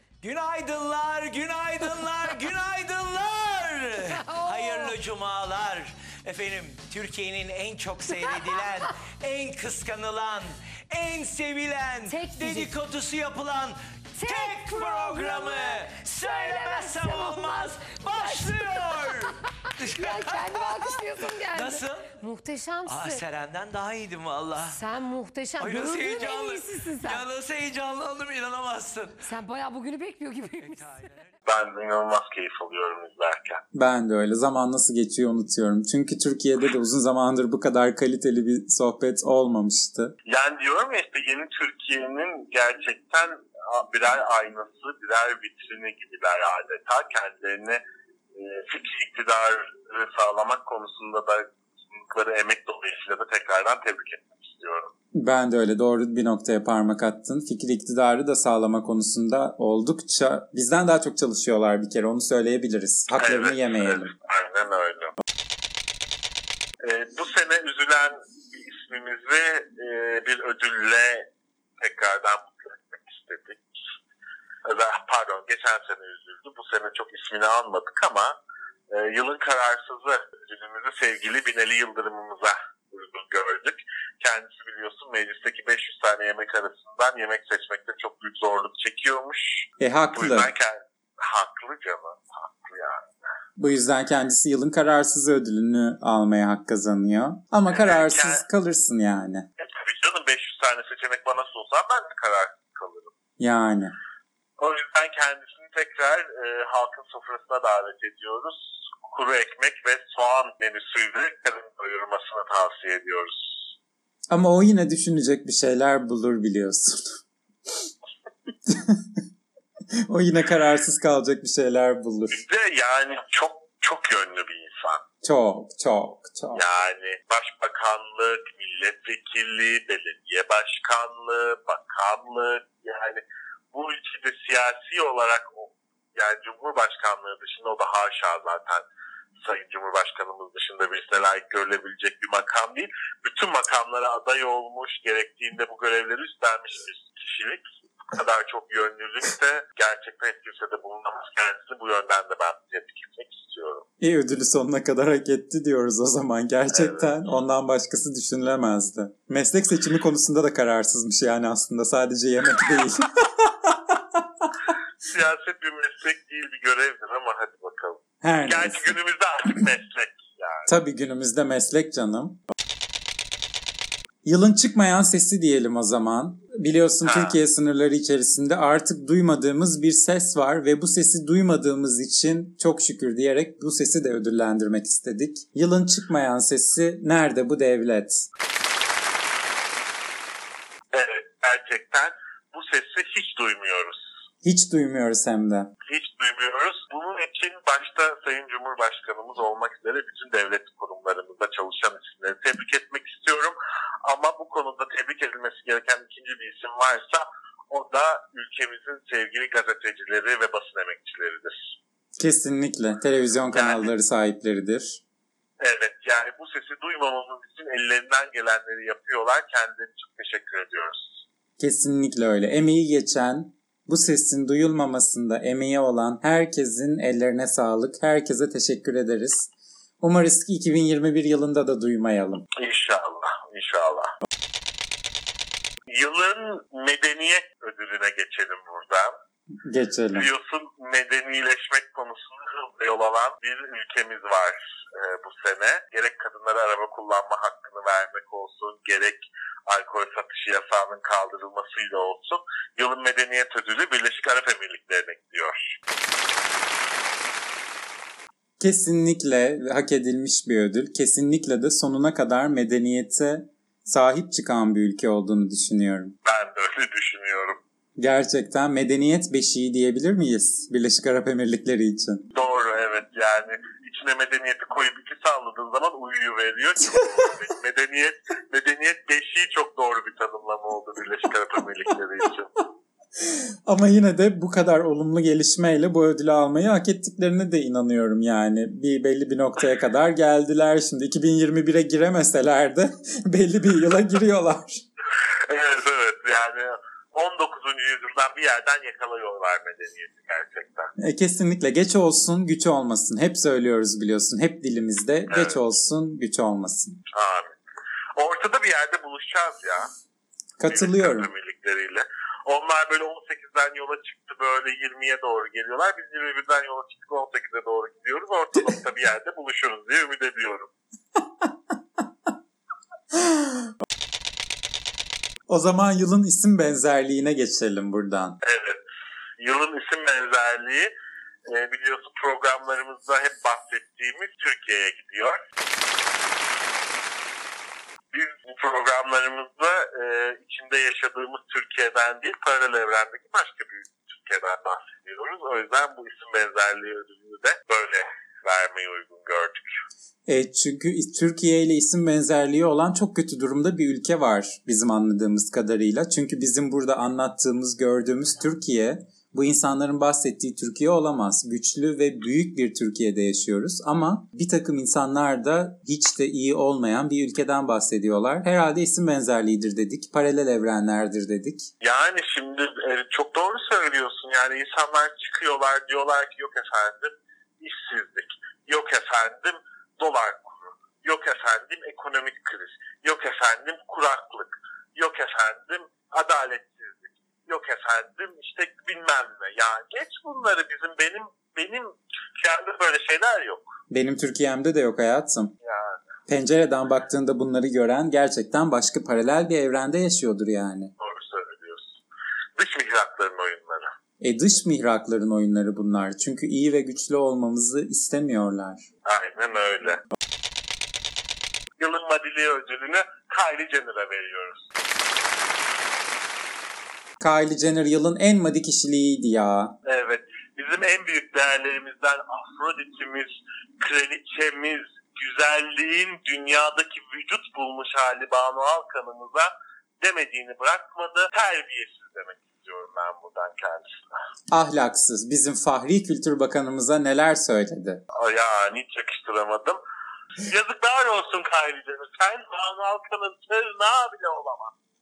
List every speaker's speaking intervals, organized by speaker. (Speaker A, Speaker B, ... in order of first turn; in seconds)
Speaker A: 0.2-22.1, 22.9-24.8, 25.6-29.3, 30.6-31.2
Speaker B: 4.1-5.0, 8.1-8.7, 12.1-12.7, 14.2-19.3, 19.9-23.2, 24.7-27.3, 29.2-31.1
Speaker C: 31.5-33.6, 40.3-47.8, 48.4-54.9, 63.2-65.1, 66.8-71.2, 71.8-73.6, 74.7-78.3, 78.9-93.1, 97.7-98.4, 99.6-103.1, 104.6-113.6, 122.3-125.0, 126.5-133.2, 133.7-138.8, 139.4-153.9, 156.7-157.1, 165.1-170.7, 177.1-177.4, 190.9-194.0, 195.9-211.6, 213.5-213.9, 215.6-221.2, 232.6-234.1, 235.9-239.1, 240.1-255.8, 266.2-267.6, 272.3-282.5, 295.2-300.9, 305.3-305.6, 307.1-307.6, 308.2-309.9, 310.7-320.7, 328.4-328.8, 329.4-330.9, 331.5-335.4, 338.1-349.6, 371.8-393.7, 395.6-396.0, 401.0-401.9, 402.6-403.9, 409.1-410.0, 411.8-414.7, 419.9-429.5, 430.0-434.0, 438.2-439.8, 440.4-444.7
Speaker D: 33.7-40.1, 55.1-64.1, 89.8-90.5, 93.6-99.5, 103.4-104.0, 114.3-117.9, 118.7-119.2, 120.0-122.4, 125.2-126.6, 154.0-164.5, 168.2-169.0, 170.7-172.4, 174.2-188.2, 194.4-195.7, 212.2-215.0, 221.6-229.5, 230.0-232.4, 239.6-240.3, 258.6-266.1, 268.0-272.3, 283.2-294.8, 301.0-307.0, 310.6-311.3, 321.2-321.5, 323.1-323.7, 325.5-328.4, 350.3-371.7, 393.9-395.5, 396.3-400.9, 404.2-408.9, 417.2-419.8, 434.5-438.0